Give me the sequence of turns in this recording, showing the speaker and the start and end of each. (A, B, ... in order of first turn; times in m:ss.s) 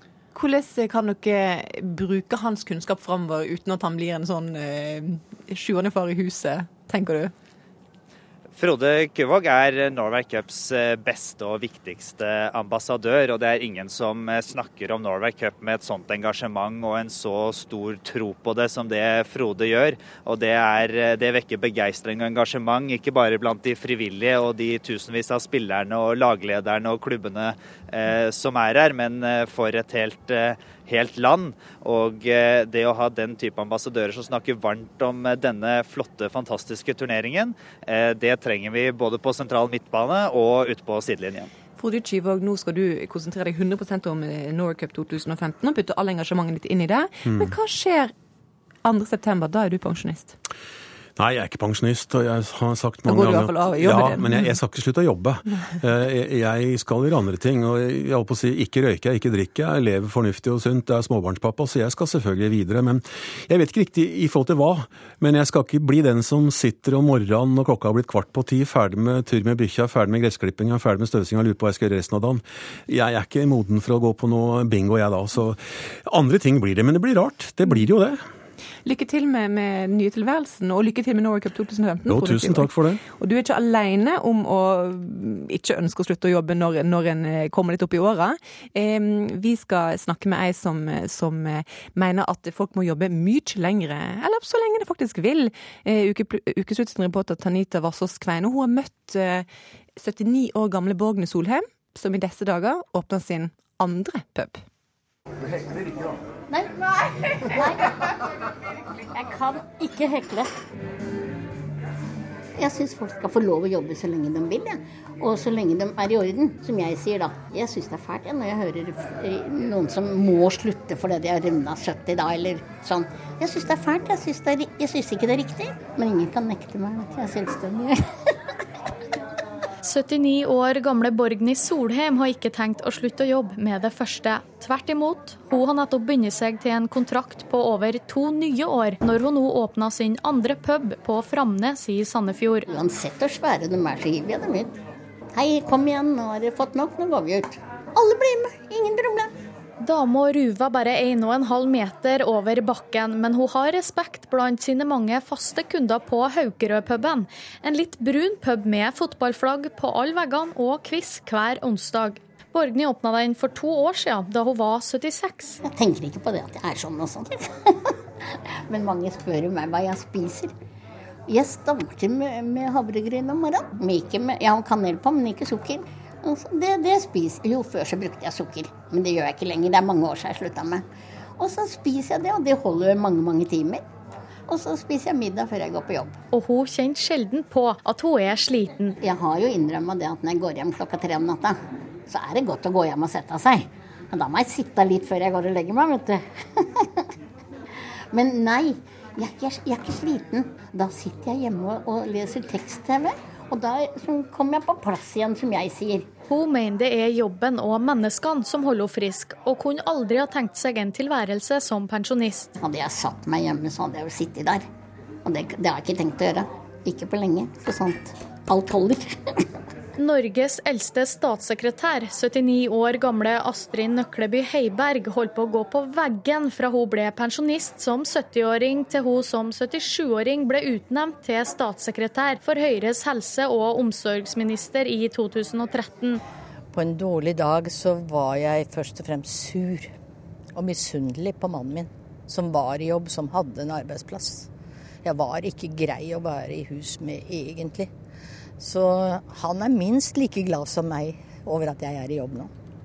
0:00.3-0:07.3 A
0:08.6-0:41.5 B
0:41.8-0:48.1 A
0:47.3-0:47.6 C
0:48.8-0:50.4 A
0:51.2-1:18.2 C
0:53.1-0:54.5 A
1:18.8-1:44.6 A
1:22.1-1:23.0 C
1:47.4-1:48.0 D
1:49.1-1:50.5 D
1:52.6-2:08.0 D
2:09.8-2:22.7 E
2:22.7-2:24.8 D
2:25.3-2:29.3 D
2:29.8-2:45.6 E
2:45.6-2:47.9 D
2:48.7-2:50.5 D
2:51.3-3:00.8 D
3:01.4-3:03.8 D
3:04.5-3:06.2 D
3:06.3-3:09.0 E
3:09.0-3:16.9 D
3:18.1-3:26.1 D
3:26.3-3:32.5 E
3:32.6-3:34.7 D
3:35.2-3:39.4 D
3:40.0-3:56.2 E
3:56.7-3:59.9 F
4:00.6-4:04.5 F
4:05.0-4:07.9 F
4:08.6-4:12.5 F